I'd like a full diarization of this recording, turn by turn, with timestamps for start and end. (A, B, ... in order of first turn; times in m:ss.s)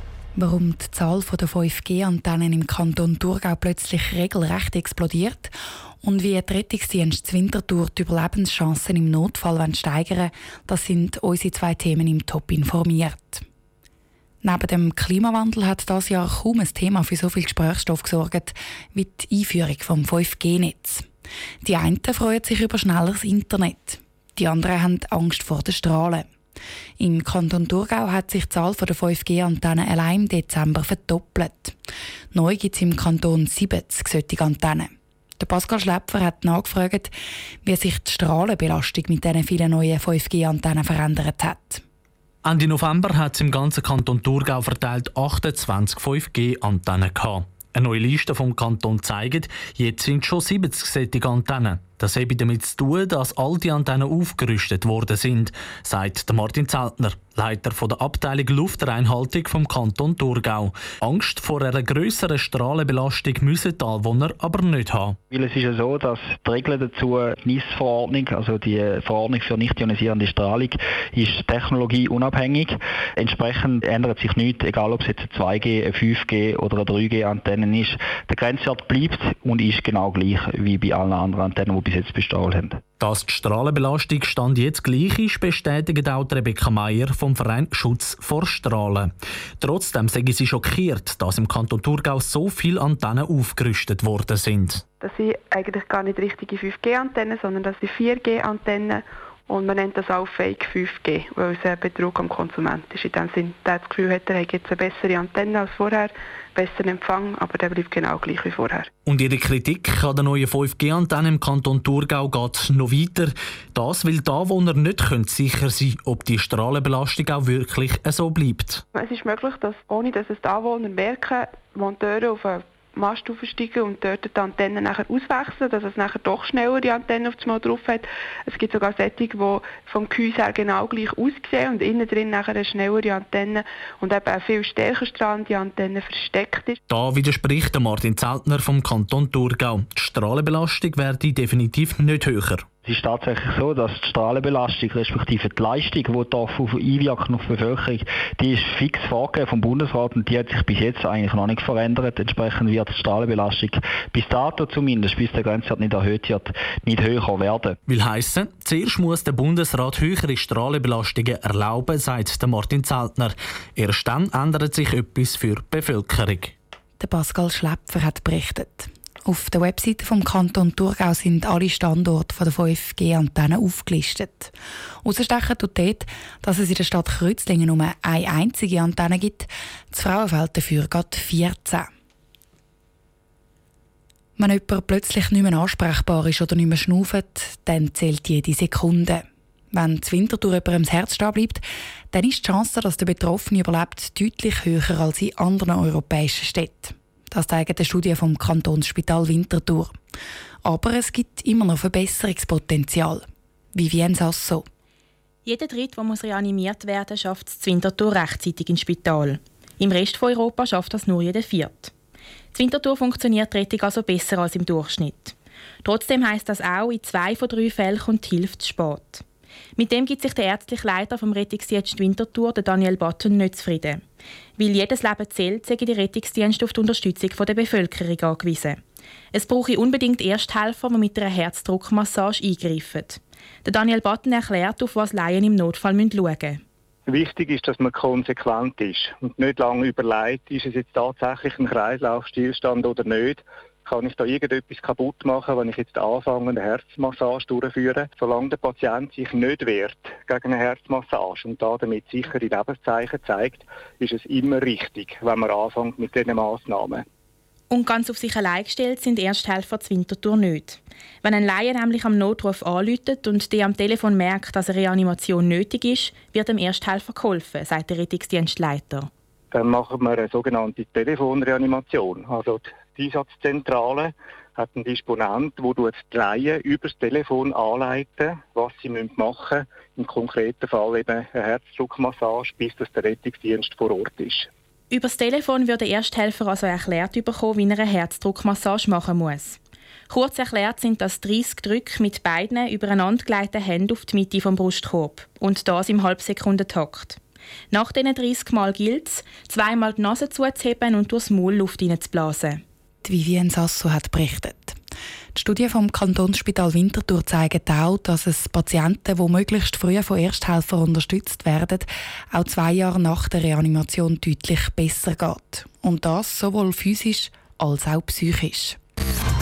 0:00.4-0:05.5 A
0:06.0-0:13.4 A
0:14.4-0:21.0 A
0:21.6-0:26.2 A
0:27.0-0:31.7 A
0:32.3-0:37.1 A
0:37.6-0:41.8 A
0:42.4-1:05.2 B
1:05.3-1:22.8 C
1:23.0-1:34.8 B
1:35.0-1:48.9 D
1:49.0-1:58.8 B
1:58.9-2:16.8 D
2:16.9-2:22.7 B
2:22.8-2:37.8 C
2:37.9-2:46.5 B
2:47.0-2:54.5 A
2:55.0-3:01.9 A
3:04.4-3:19.9 A
3:20.6-3:24.7 A
3:25.4-3:31.9 E
3:32.5-3:39.2 E
3:39.8-3:44.0 E
3:44.6-3:48.8 E
3:49.3-3:56.6 E
3:57.1-4:17.1 F
4:17.7-4:29.1 E
4:29.5-4:44.5 F
4:44.9-4:49.6 E
4:50.1-4:57.2 E
4:57.7-5:02.6 E
5:03.0-5:04.8 A
5:05.3-5:18.8 A